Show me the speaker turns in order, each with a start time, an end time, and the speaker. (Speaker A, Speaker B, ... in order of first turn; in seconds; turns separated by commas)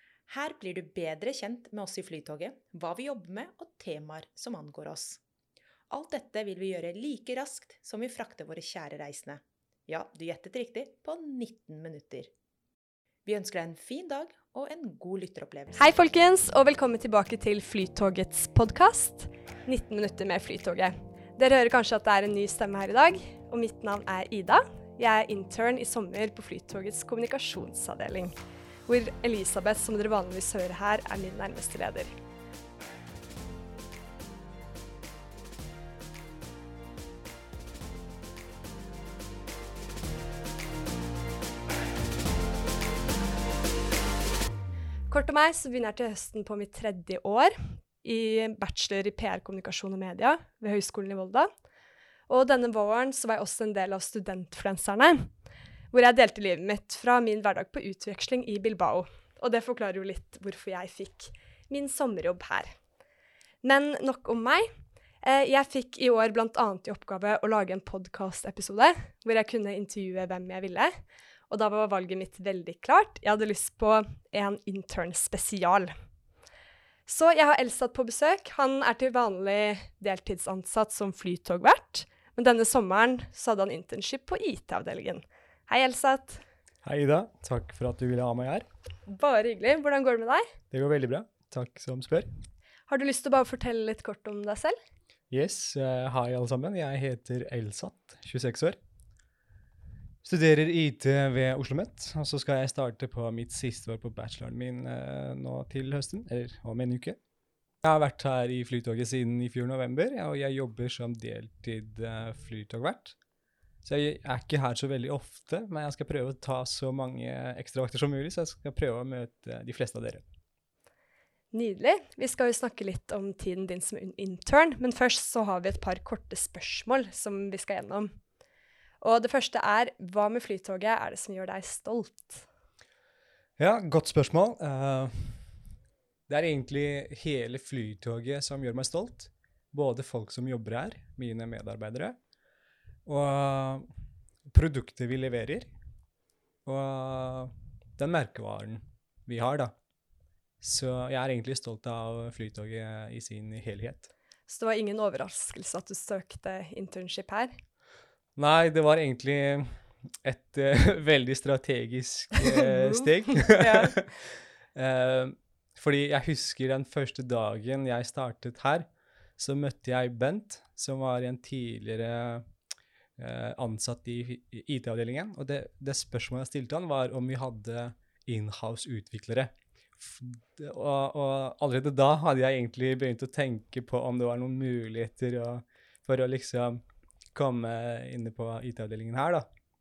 Speaker A: 0.3-5.2, Speaker A: 5.9-12.3, Speaker A: 13.2-15.9, Speaker B: 15.8-28.3, Speaker B: 28.9-32.1, Speaker B: 45.1-51.5, Speaker B: 52.3-55.3, Speaker B: 55.9-62.7, Speaker B: 63.6-64.7, Speaker B: 65.2-70.9, Speaker B: 71.5-75.9, Speaker B: 77.0-86.4, Speaker C: 86.8-88.7, Speaker B: 89.1-90.4, Speaker C: 90.7-92.3, Speaker B: 92.9-94.8, Speaker C: 95.3-98.8, Speaker C: 100.2-107.2, Speaker C: 107.8-113.2, Speaker C: 113.8-120.2, Speaker B: 121.5-128.1, Speaker B: 129.0-132.4, Speaker C: 133.6-135.5, Speaker C: 136.3-142.2, Speaker C: 143.1-143.8, Speaker C: 144.5-145.7, Speaker C: 146.6-149.7, Speaker C: 150.6-154.1, Speaker B: 154.5-157.5, Speaker C: 158.3-172.4, Speaker B: 162.7-164.0, Speaker C: 173.2-186.8, Speaker C: 187.3-189.4